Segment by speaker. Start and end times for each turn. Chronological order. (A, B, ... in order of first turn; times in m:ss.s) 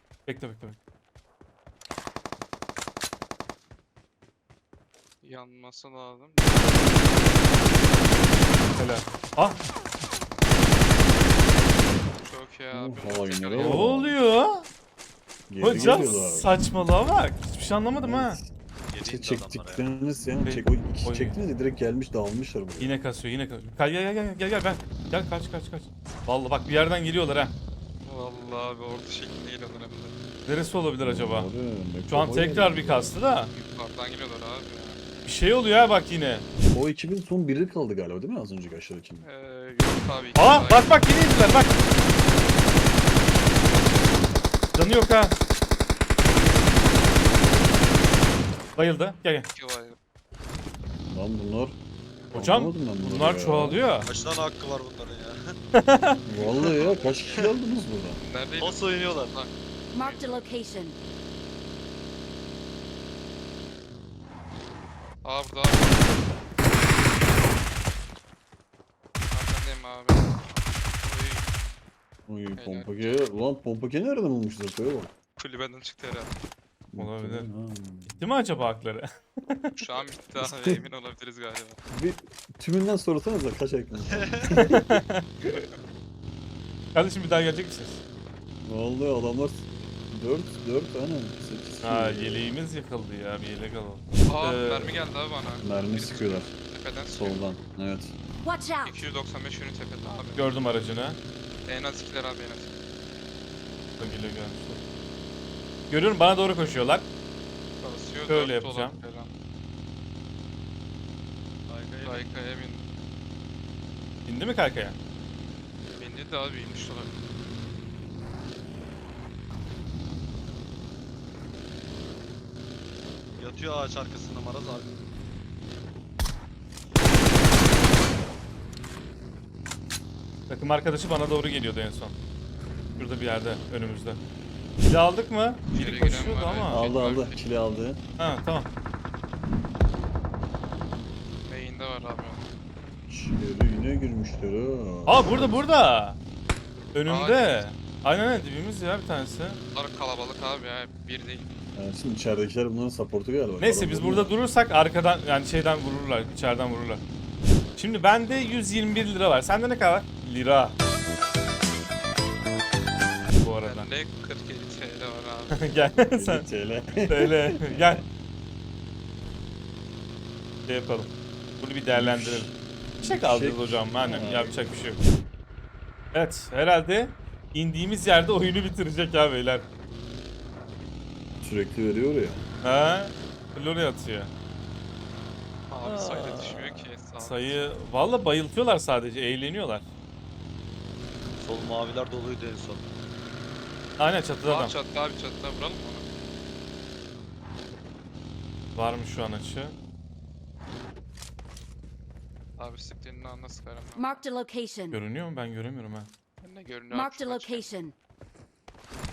0:00.2-0:00.8 A
0:05.2-0:07.0 B
0:08.8-0:09.6 A
0:11.8-0:12.1 C
0:12.2-0:13.8 B
0:12.7-0:14.2 C
0:13.6-0:14.7 A
0:15.5-0:16.5 C
0:15.6-0:18.4 A
0:15.7-0:16.4 D
0:17.9-0:18.5 C
0:18.9-0:19.8 D
0:19.0-0:23.0 C
0:20.4-0:21.4 A
0:22.8-0:27.5 A
0:28.0-0:30.1 B
0:30.4-0:31.5 A
0:31.0-0:33.1 C
0:32.1-0:33.5 A
0:33.5-0:35.0 B
0:35.2-0:36.5 A
0:36.7-0:39.2 C
0:39.2-0:41.2 B
0:40.4-0:41.7 A
0:44.7-0:45.4 A
0:48.8-0:49.5 A
0:49.5-0:50.0 B
0:51.1-0:51.8 C
0:52.3-0:54.1 C
0:52.3-0:54.1 A
0:54.0-0:55.4 D
0:55.7-0:56.2 A
0:56.2-0:58.2 C
0:56.4-0:57.5 B
0:58.2-1:00.4 B
0:58.6-0:59.3 D
0:59.9-1:01.0 E
1:05.2-1:06.2 B
1:09.3-1:11.5 B
1:12.3-1:15.1 C
1:12.6-1:13.2 B
1:15.4-1:16.3 B
1:16.9-1:18.2 C
1:17.0-1:17.5 A
1:18.1-1:19.7 A
1:19.8-1:21.8 B
1:20.4-1:20.8 C
1:21.9-1:25.0 C
1:24.1-1:24.5 D
1:24.5-1:25.6 A
1:26.9-1:28.0 A
1:28.6-1:32.4 C
1:31.8-1:34.9 A
1:34.3-1:37.4 B
1:35.6-1:36.5 C
1:37.2-1:38.2 C
1:38.4-1:39.0 E
1:38.8-1:40.5 B
1:40.4-1:41.2 A
1:41.6-1:42.7 B
1:44.0-1:44.8 A
1:45.9-1:47.1 A
1:47.8-1:49.3 B
1:48.3-1:49.0 A
1:51.7-1:52.3 D
1:52.0-1:52.8 B
1:54.2-1:55.0 A
1:55.9-1:57.1 B
2:03.4-2:04.9 D
2:10.5-2:12.1 A
2:13.0-2:14.2 A
2:14.8-2:16.8 A
2:15.7-2:17.4 B
2:16.7-2:18.0 C
2:18.2-2:18.7 A
2:21.4-2:22.5 B
2:23.1-2:25.7 C
2:25.0-2:26.2 A
2:26.9-2:29.6 A
2:27.1-2:27.7 B
2:29.7-2:31.5 B
2:31.7-2:34.3 C
2:33.6-2:37.0 A
2:37.8-2:40.8 A
2:43.4-2:43.9 A
2:43.6-2:45.6 B
2:45.5-2:46.5 A
2:46.1-2:48.0 C
2:47.1-2:48.0 A
2:50.7-2:52.5 A
2:51.9-2:54.6 C
2:53.0-2:55.0 A
2:56.1-2:59.7 A
3:01.4-3:02.4 C
3:02.6-3:04.3 A
3:05.7-3:07.6 B
3:05.8-3:09.8 A
3:11.4-3:12.8 D
3:14.0-3:14.7 A
3:14.4-3:16.0 B
3:18.7-3:19.8 A
3:22.6-3:24.2 B
3:24.0-3:25.0 E
3:24.9-3:26.1 A
3:26.4-3:27.7 B
3:26.9-3:27.9 E